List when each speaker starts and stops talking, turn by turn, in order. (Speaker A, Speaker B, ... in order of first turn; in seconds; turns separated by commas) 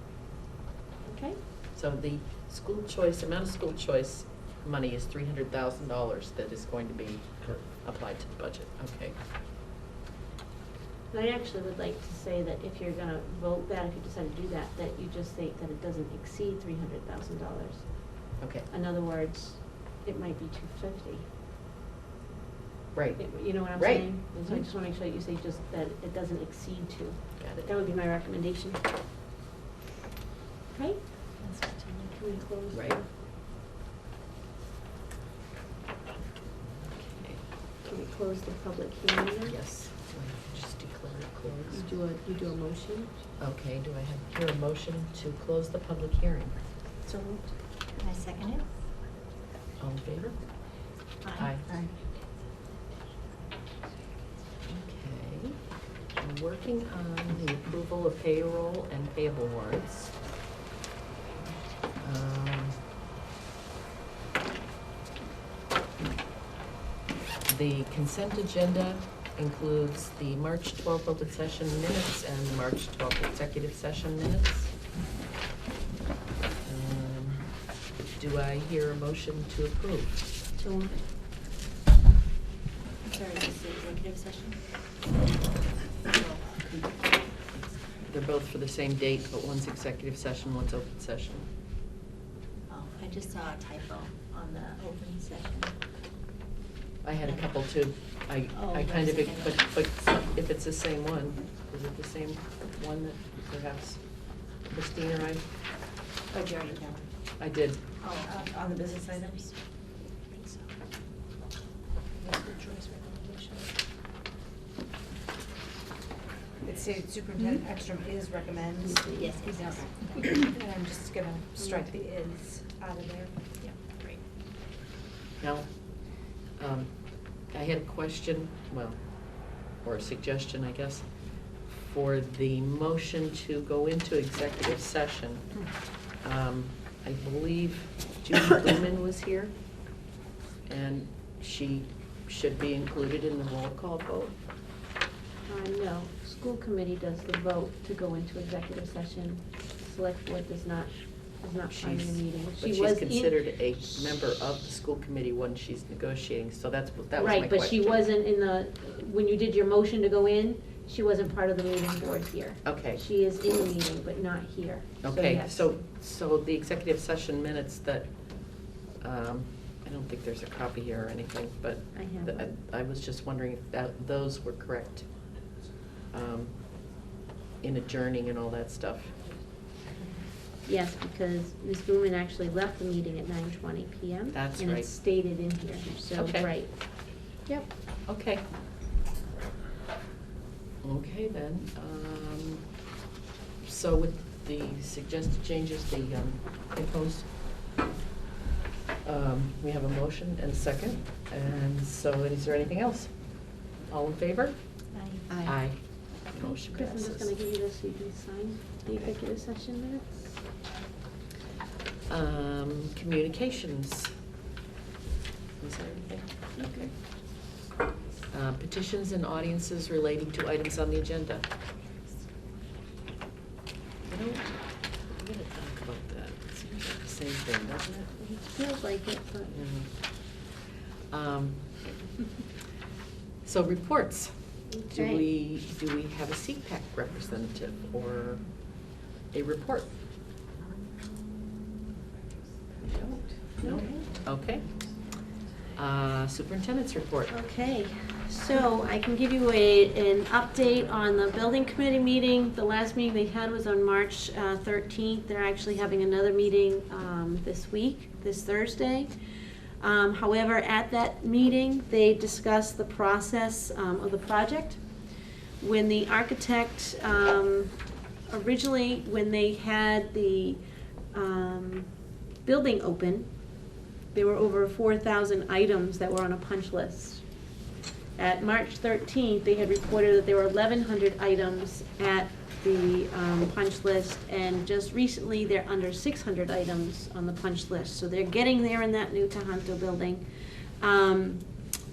Speaker A: 1.1-1.4, Speaker B: 1.7-9.2, Speaker A: 11.1-21.3, Speaker B: 18.4-18.7, Speaker B: 22.9-24.5, Speaker A: 23.2-28.8, Speaker B: 27.4-27.7, Speaker A: 30.7-33.1, Speaker B: 32.7-33.0, Speaker B: 36.9-37.5, Speaker A: 37.8-39.6, Speaker B: 39.5-41.8, Speaker A: 41.7-43.1, Speaker B: 43.4-46.6, Speaker C: 47.1-47.4, Speaker D: 48.0-48.7, Speaker B: 49.8-50.7, Speaker D: 51.2-51.5, Speaker B: 51.4-51.6, Speaker B: 54.7-60.2, Speaker B: 62.0-62.8, Speaker B: 67.5-74.7, Speaker B: 76.6-80.3, Speaker A: 80.6-81.0, Speaker D: 83.0-84.6, Speaker D: 86.1-86.6, Speaker B: 88.1-91.5, Speaker D: 92.7-95.8, Speaker B: 97.0-105.5, Speaker D: 98.5-99.6, Speaker C: 106.4-107.0, Speaker B: 107.4-107.8, Speaker D: 108.0-109.5, Speaker C: 108.2-109.4, Speaker D: 110.3-110.6, Speaker C: 112.2-113.7, Speaker C: 116.6-123.5, Speaker A: 118.8-119.4, Speaker D: 119.2-120.5, Speaker B: 125.4-139.5, Speaker B: 140.7-144.3, Speaker A: 145.5-153.7, Speaker B: 151.7-158.0, Speaker A: 157.2-165.8, Speaker B: 162.6-163.0, Speaker B: 165.0-175.3, Speaker A: 171.9-172.5, Speaker B: 176.1-176.7, Speaker B: 177.6-179.2, Speaker A: 180.7-187.7, Speaker B: 184.3-184.9, Speaker B: 186.2-186.5, Speaker B: 188.1-188.4, Speaker B: 190.8-192.8, Speaker B: 193.6-197.4, Speaker B: 199.0-207.3, Speaker D: 204.9-205.5, Speaker A: 206.4-210.4, Speaker B: 212.1-214.1, Speaker B: 215.6-216.9, Speaker A: 216.6-216.9, Speaker B: 218.3-221.5, Speaker B: 224.0-228.4, Speaker A: 228.4-229.5, Speaker B: 229.5-230.5, Speaker B: 231.1-232.0, Speaker B: 233.4-238.4, Speaker A: 234.7-235.3, Speaker B: 239.3-239.9, Speaker B: 242.8-244.7, Speaker A: 243.6-244.0, Speaker B: 245.8-247.3, Speaker A: 247.3-259.1, Speaker A: 259.8-264.8, Speaker A: 265.6-267.8, Speaker A: 268.3-270.6, Speaker A: 271.1-271.9, Speaker A: 272.4-273.3, Speaker A: 274.1-277.3, Speaker A: 278.2-291.6